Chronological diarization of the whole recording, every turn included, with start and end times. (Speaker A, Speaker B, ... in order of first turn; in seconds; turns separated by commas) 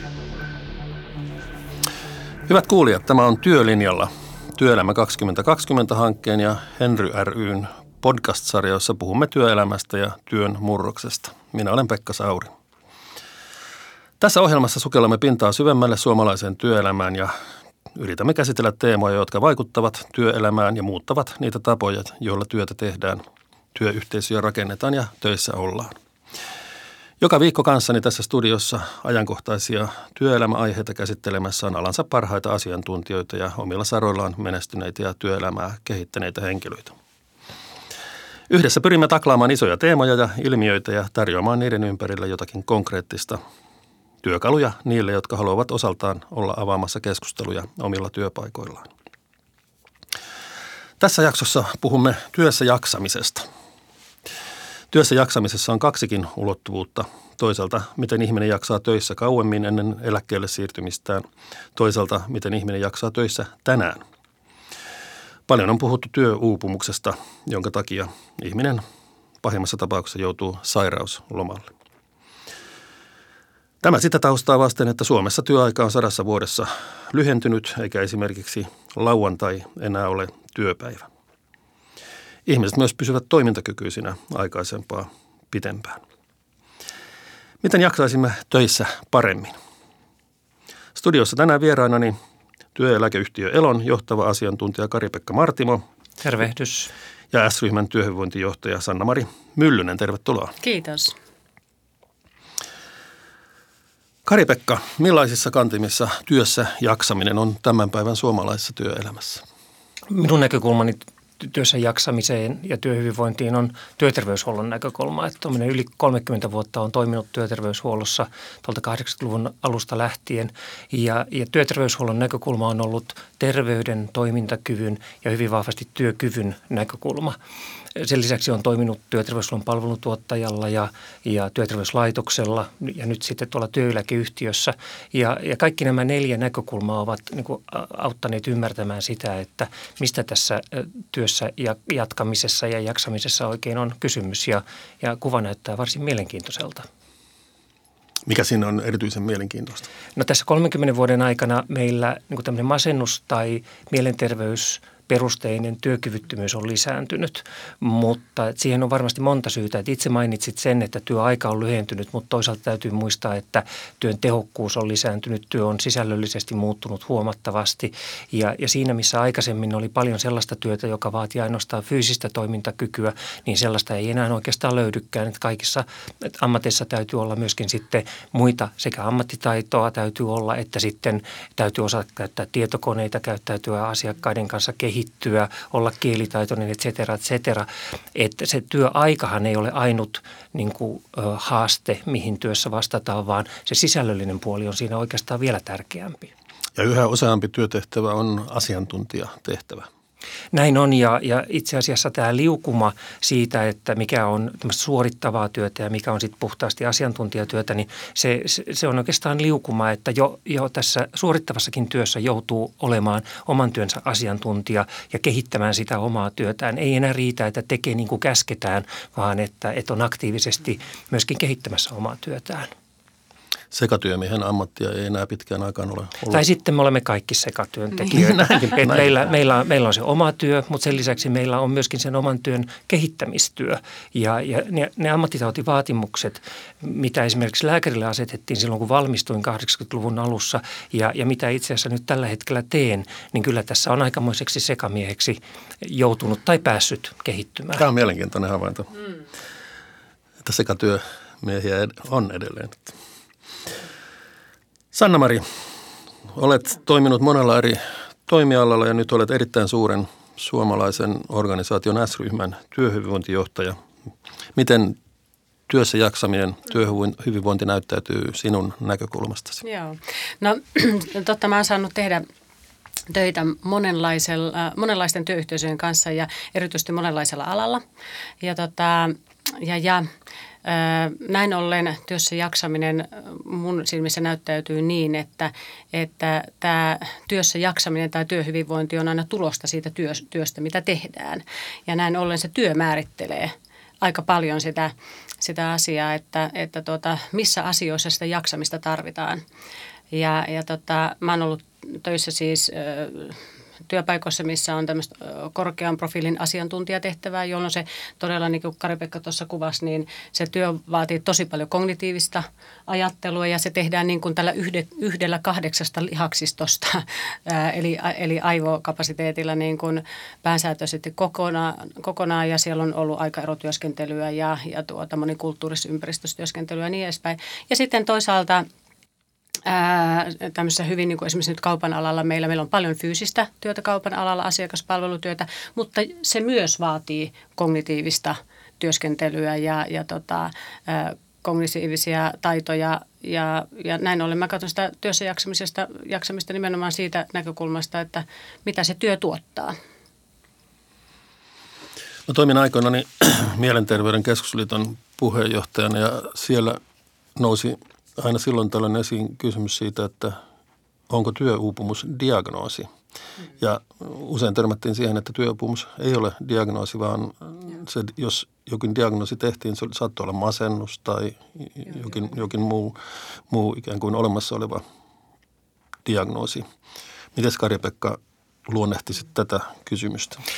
Speaker A: 2.5-12.5, Speaker A: 14.2-17.3, Speaker A: 17.9-23.2, Speaker A: 23.7-25.9, Speaker A: 27.2-37.0, Speaker A: 38.5-43.4, Speaker A: 44.2-48.9, Speaker A: 51.0-53.5, Speaker A: 54.9-64.0, Speaker A: 65.5-68.8, Speaker A: 69.4-71.7, Speaker A: 73.8-81.1, Speaker A: 82.5-86.0, Speaker A: 87.6-89.5, Speaker A: 91.0-92.2, Speaker A: 92.8-95.8, Speaker B: 96.2-96.9, Speaker A: 97.3-100.6, Speaker C: 100.6-101.1, Speaker A: 104.2-109.4, Speaker B: 110.1-127.4, Speaker B: 128.0-146.9, Speaker A: 148.3-149.9, Speaker B: 150.2-196.3, Speaker A: 196.8-199.9, Speaker B: 200.5-222.7, Speaker A: 223.7-226.4, Speaker B: 226.3-247.8, Speaker A: 228.1-229.1, Speaker A: 247.8-248.9, Speaker A: 250.4-253.0, Speaker A: 254.9-255.4, Speaker A: 256.3-263.8, Speaker A: 264.6-265.0, Speaker A: 265.7-269.6, Speaker C: 269.6-272.2, Speaker C: 273.1-277.8, Speaker C: 278.4-280.1, Speaker C: 280.6-299.4, Speaker C: 300.1-328.7, Speaker C: 329.6-349.8, Speaker A: 352.3-356.8, Speaker A: 357.4-360.4, Speaker A: 361.1-362.9, Speaker A: 363.6-373.0, Speaker A: 373.5-374.8, Speaker A: 376.1-376.6, Speaker A: 377.4-380.4